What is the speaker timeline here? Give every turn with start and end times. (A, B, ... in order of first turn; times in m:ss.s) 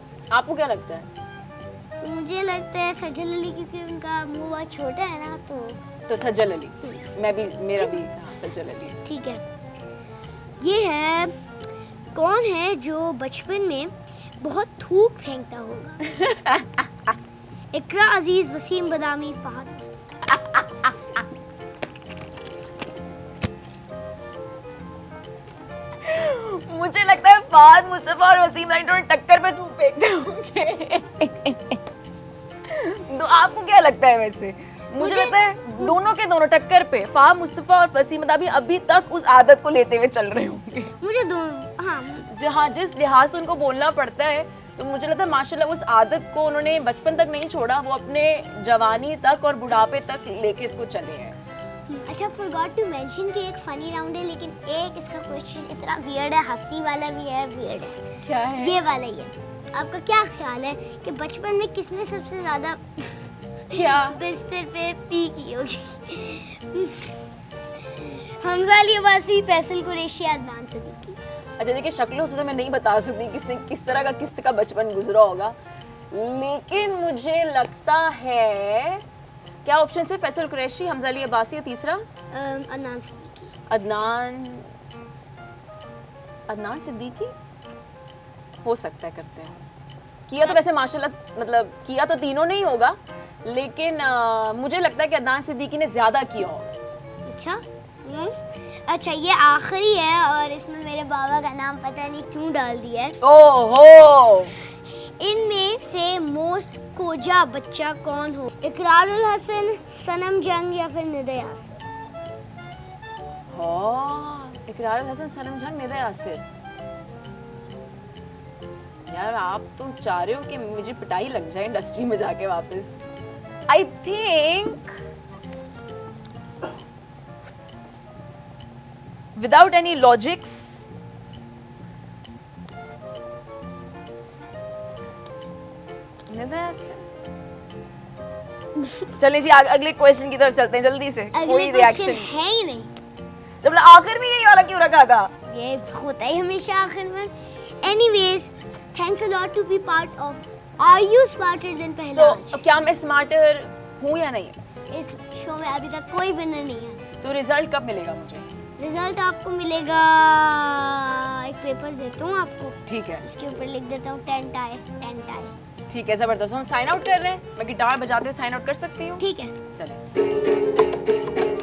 0:00.3-0:01.1 A
0:02.0-0:05.8 B
0:06.1-0:09.0 A
0:06.8-0:08.0 B
0:09.0-0:09.4 B
0:10.6-0:11.3 B
0:12.1-0:16.0 B
0:16.1-0:16.9 A
0:17.7-0:20.0 B
0:20.3-0:21.2 A
0:26.0-0:31.8 A
0:32.6-0:40.9 A
0:35.0-0:36.0 B
0:41.0-0:42.3 B
0:42.3-0:51.4 A
0:51.9-0:58.0 B
0:58.3-0:58.8 A
0:58.5-1:03.1 B
1:03.7-1:04.2 A
1:03.7-1:07.1 B
1:07.9-1:11.2 B
1:11.6-1:15.6 A
1:16.1-1:19.0 A
1:19.6-1:22.0 A
1:22.3-1:23.5 B
1:23.7-1:24.7 A
1:26.5-1:27.3 A
1:28.6-1:29.6 A
1:30.3-1:36.7 A
1:37.3-1:38.4 B
1:38.9-1:43.2 B
1:43.2-1:44.6 A
1:45.2-1:51.8 B
1:53.5-1:56.4 A
1:59.1-2:03.0 A
2:03.7-2:05.0 A
2:09.4-2:10.8 A
2:16.3-2:17.0 A
2:19.2-2:22.3 A
2:21.3-2:22.9 B
2:23.6-2:25.3 A
2:25.5-2:32.6 B
2:32.1-2:34.6 A
2:34.9-2:37.0 B
2:37.2-2:38.5 A
2:38.8-2:45.5 B
2:42.9-2:43.2 A
2:45.9-2:49.2 A
2:49.2-2:49.5 B
2:49.8-2:50.0 A